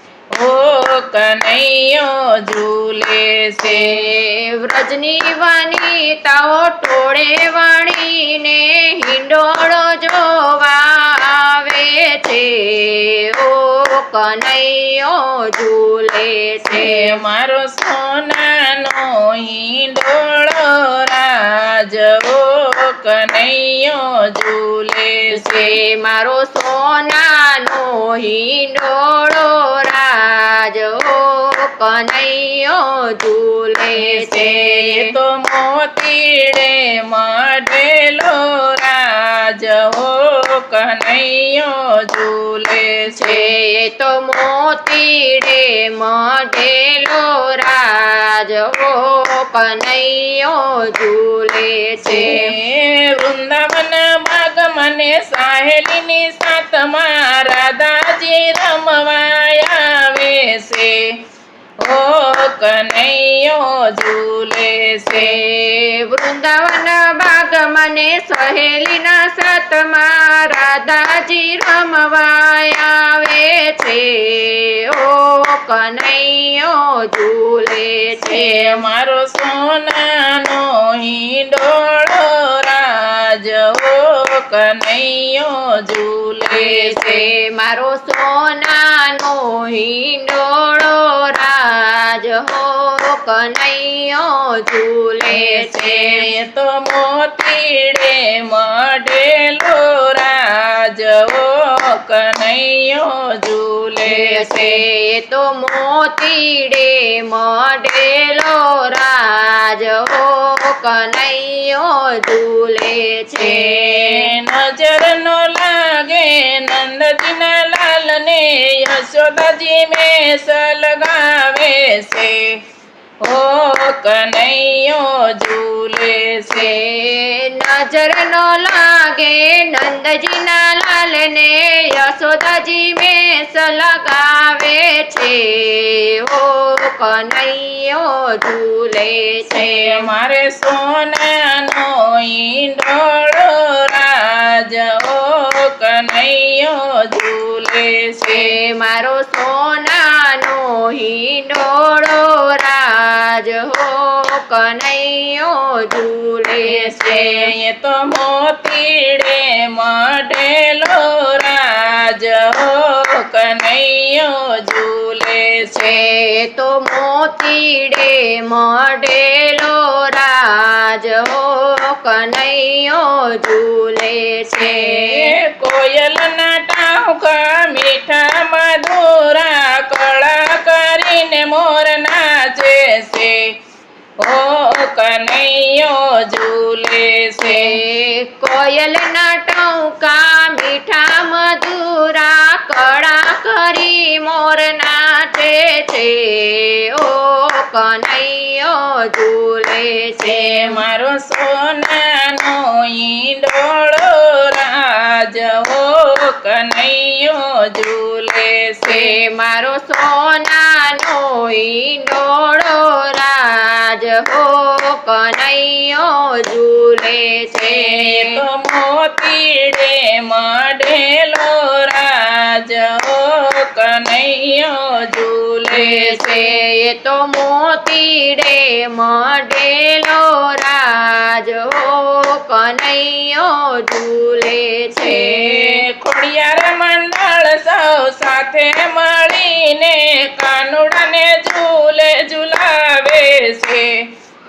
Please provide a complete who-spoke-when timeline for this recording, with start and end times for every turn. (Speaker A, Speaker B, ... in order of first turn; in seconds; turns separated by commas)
Speaker A: 0.3-4.0, Speaker B: 3.6-17.2, Speaker A: 16.7-25.7, Speaker B: 25.3-35.1, Speaker A: 34.0-43.5, Speaker B: 43.1-52.5, Speaker A: 52.0-61.2, Speaker A: 61.8-65.4, Speaker B: 65.1-78.8, Speaker A: 78.2-87.3, Speaker B: 86.5-96.3, Speaker A: 95.3-104.8, Speaker B: 104.0-114.3, Speaker A: 113.4-122.5, Speaker A: 123.2-126.7, Speaker B: 126.5-140.0, Speaker A: 139.5-148.5, Speaker B: 148.2-157.5, Speaker A: 156.6-165.8, Speaker B: 165.6-175.3, Speaker A: 174.6-183.5, Speaker A: 184.2-187.8, Speaker B: 187.4-200.8, Speaker A: 200.2-209.1, Speaker B: 208.8-218.4, Speaker A: 217.6-226.5, Speaker B: 225.7-235.8, Speaker A: 235.0-244.0